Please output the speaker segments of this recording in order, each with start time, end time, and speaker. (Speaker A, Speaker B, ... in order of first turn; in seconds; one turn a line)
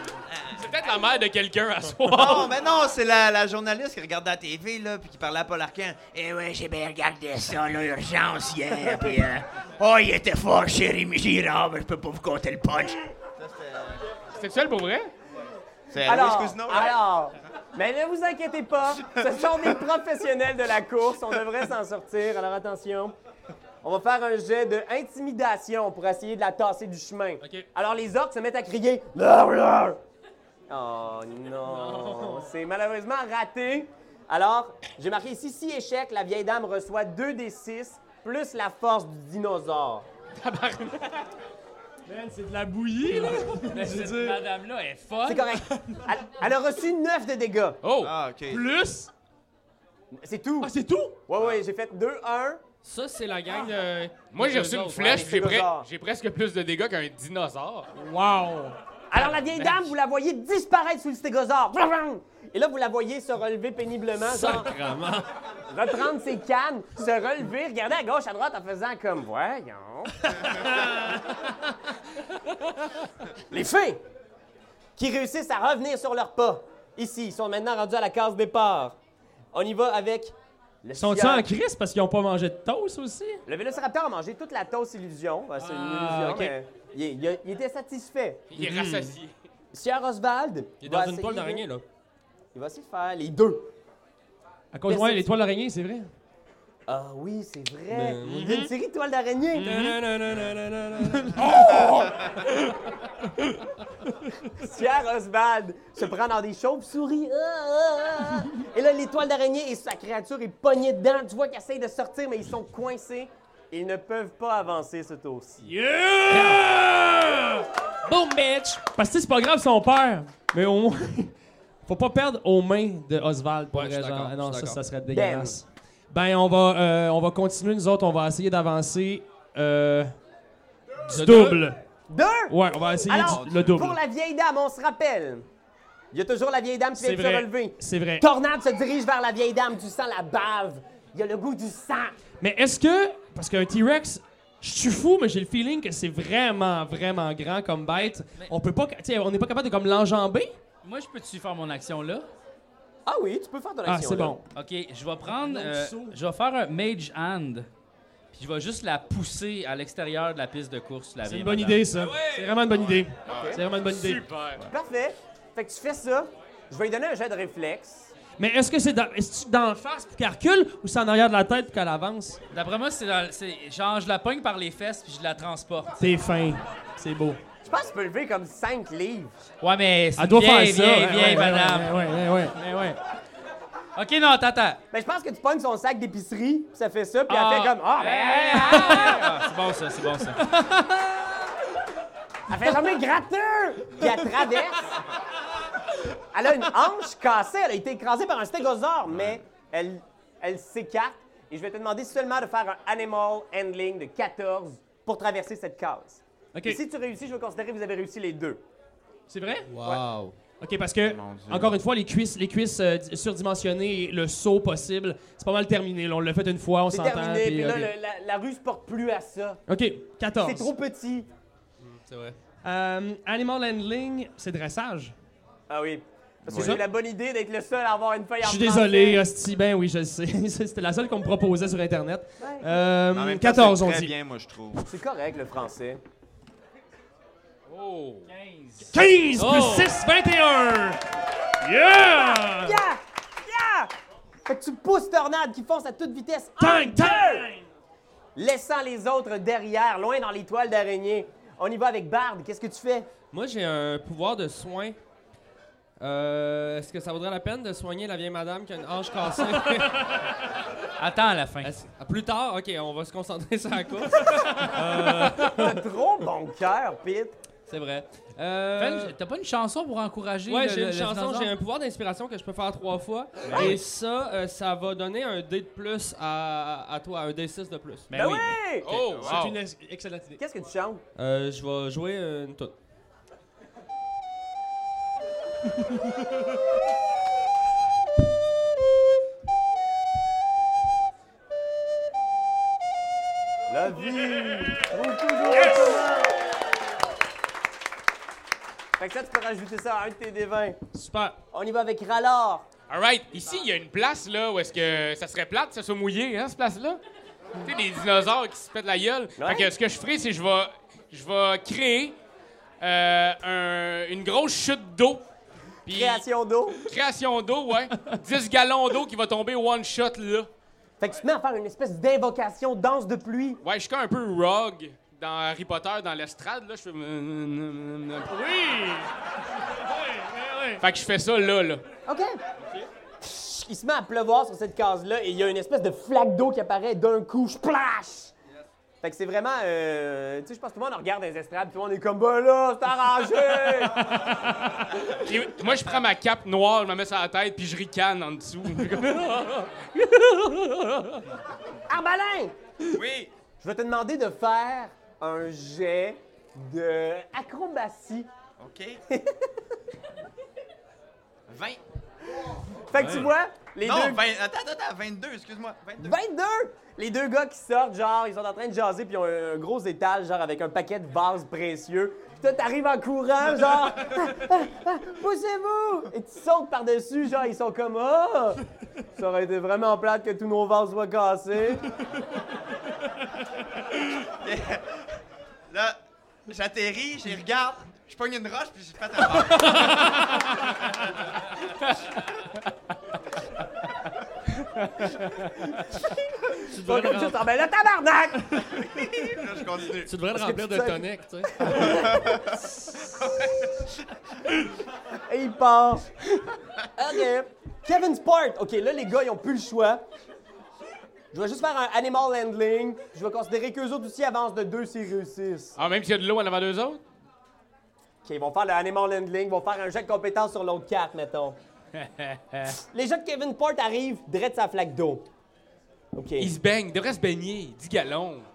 Speaker A: 0.3-0.6
Speaker B: 0.5-2.5
Speaker A: 2.1-14.0
Speaker B: 14.3-15.1
Speaker A: 15.9-17.0
Speaker C: 16.1-23.1
Speaker C: 23.8-30.0
Speaker C: 30.7-40.1
Speaker D: 31.7-32.5
Speaker B: 40.4-41.3
Speaker D: 42.1-44.4
Speaker E: 43.6-45.5
Speaker C: 45.3-47.8
Speaker B: 47.8-48.1
Speaker A: 48.0-48.7
Speaker D: 48.5-49.1
Speaker C: 50.1-50.7
Speaker D: 50.6-51.2
Speaker C: 51.3-52.6
Speaker F: 52.8-55.2
Speaker B: 54.3-57.9
Speaker C: 55.0-55.9
Speaker D: 57.9-58.8
Speaker C: 59.1-64.7
Speaker B: 59.1-59.9
Speaker F: 64.2-65.3
Speaker C: 65.7-70.7
Speaker D: 70.4-71.6
Speaker C: 73.5-74.0
Speaker C: 75.0-79.0
Speaker C: 79.5-81.5
Speaker D: 81.0-83.4
Speaker C: 83.5-88.5
Speaker D: 85.7-86.5
Speaker B: 88.5-89.3
Speaker F: 88.6-89.1
Speaker C: 89.7-91.7
Speaker F: 90.8-91.8
Speaker C: 92.5-93.7
Speaker D: 94.7-96.1
Speaker C: 94.9-95.3
Speaker C: 96.9-99.7
Speaker F: 97.9-98.6
Speaker D: 99.6-100.0
Speaker F: 99.6-101.8
Speaker D: 101.3-102.8
Speaker C: 101.6-102.0
Speaker C: 104.5-115.7
Speaker D: 115.6-121.3
Speaker F: 116.3-116.6
Speaker F: 118.1-118.4
Speaker D: 121.9-130.1
Speaker F: 123.7-124.8
Speaker C: 125.1-125.6
Speaker D: 131.1-131.8
Speaker F: 131.1-131.5
Speaker E: 131.2-131.6
Speaker C: 132.1-135.5
Speaker D: 132.5-134.0
Speaker A: 133.3-133.7
Speaker C: 136.1-142.2
Speaker D: 137.0-138.2
Speaker D: 142.4-150.6
Speaker E: 148.0-148.5
Speaker E: 150.8-152.3
Speaker C: 153.1-154.4
Speaker D: 153.8-154.4
Speaker E: 154.5-157.7
Speaker D: 155.3-156.2
Speaker E: 158.3-162.2
Speaker D: 161.2-164.3
Speaker A: 163.2-163.6
Speaker C: 163.3-163.6
Speaker B: 163.9-164.7
Speaker C: 164.7-168.1
Speaker D: 168.4-172.4
Speaker E: 172.5-176.0
Speaker D: 176.0-177.4
Speaker C: 177.7-179.4
Speaker E: 179.6-181.9
Speaker D: 180.2-183.0
Speaker E: 184.0-184.8
Speaker C: 184.9-189.2
Speaker E: 187.3-190.4
Speaker D: 188.7-189.1
Speaker D: 190.3-191.5
Speaker C: 192.5-194.9
Speaker C: 196.3-208.6
Speaker D: 206.5-206.8
Speaker D: 209.3-209.7
Speaker F: 209.7-210.4
Speaker D: 210.6-217.9
Speaker A: 211.0-211.8
Speaker C: 216.9-219.6
Speaker D: 219.7-220.7
Speaker C: 220.4-221.3
Speaker F: 221.8-222.4
Speaker D: 222.6-225.1
Speaker C: 225.7-229.2
Speaker A: 226.5-226.8
Speaker D: 226.5-226.8
Speaker D: 228.4-234.1
Speaker C: 232.4-232.7
Speaker A: 233.1-234.9
Speaker C: 234.8-236.0
Speaker B: 237.7-238.3
Speaker E: 238.3-238.9
Speaker D: 238.9-241.0
Speaker F: 239.4-240.0
Speaker D: 241.6-242.8
Speaker C: 242.2-243.9
Speaker C: 244.5-247.5
Speaker D: 246.6-247.7
Speaker C: 248.4-253.1
Speaker F: 253.3-255.0
Speaker F: 256.0-260.2
Speaker E: 261.0-261.7
Speaker F: 261.6-265.8
Speaker C: 265.4-267.4
Speaker F: 267.7-269.1
Speaker E: 268.8-271.6
Speaker F: 270.5-278.1
Speaker E: 273.4-273.8
Speaker E: 278.1-278.6
Speaker C: 278.1-278.9
Speaker B: 278.9-279.6
Speaker A: 279.0-279.4
Speaker D: 279.1-280.4
Speaker C: 280.4-281.0
Speaker F: 281.2-282.8
Speaker C: 293.7-296.4
Speaker D: 295.5-296.2
Speaker C: 299.0-300.8
Speaker D: 300.9-301.4
Speaker C: 301.5-302.7
Speaker B: 302.9-307.0
Speaker B: 307.6-312.1
Speaker C: 309.4-309.7
Speaker B: 312.8-315.2
Speaker C: 315.9-316.8
Speaker B: 315.9-316.2
Speaker B: 316.8-320.5
Speaker C: 321.0-323.6
Speaker B: 323.6-328.4
Speaker D: 328.3-329.1
Speaker D: 329.7-330.8
Speaker B: 330.8-331.8
Speaker C: 332.1-332.4
Speaker C: 333.2-338.3
Speaker C: 339.0-344.1
Speaker D: 343.9-344.8
Speaker B: 345.1-351.0
Speaker C: 351.9-352.5
Speaker A: 352.9-353.3
Speaker C: 353.6-358.3
Speaker A: 358.6-359.0
Speaker C: 359.1-359.5
Speaker A: 361.5-361.8
Speaker C: 362.7-364.2
Speaker F: 363.0-363.3
Speaker A: 363.8-366.2
Speaker C: 366.0-378.6
Speaker C: 379.2-381.9
Speaker A: 384.3-384.9
Speaker A: 385.7-390.3
Speaker B: 394.8-395.5
Speaker C: 395.8-399.3
Speaker F: 396.6-397.4
Speaker A: 399.2-400.1
Speaker F: 400.1-401.9
Speaker C: 400.4-402.5
Speaker A: 401.8-402.6
Speaker A: 403.2-403.7
Speaker C: 405.3-406.1
Speaker C: 406.9-410.0
Speaker C: 411.3-415.8
Speaker B: 415.8-417.0
Speaker C: 418.2-421.6
Speaker B: 422.0-422.7
Speaker C: 422.7-425.2
Speaker C: 426.1-426.5
Speaker B: 426.4-428.5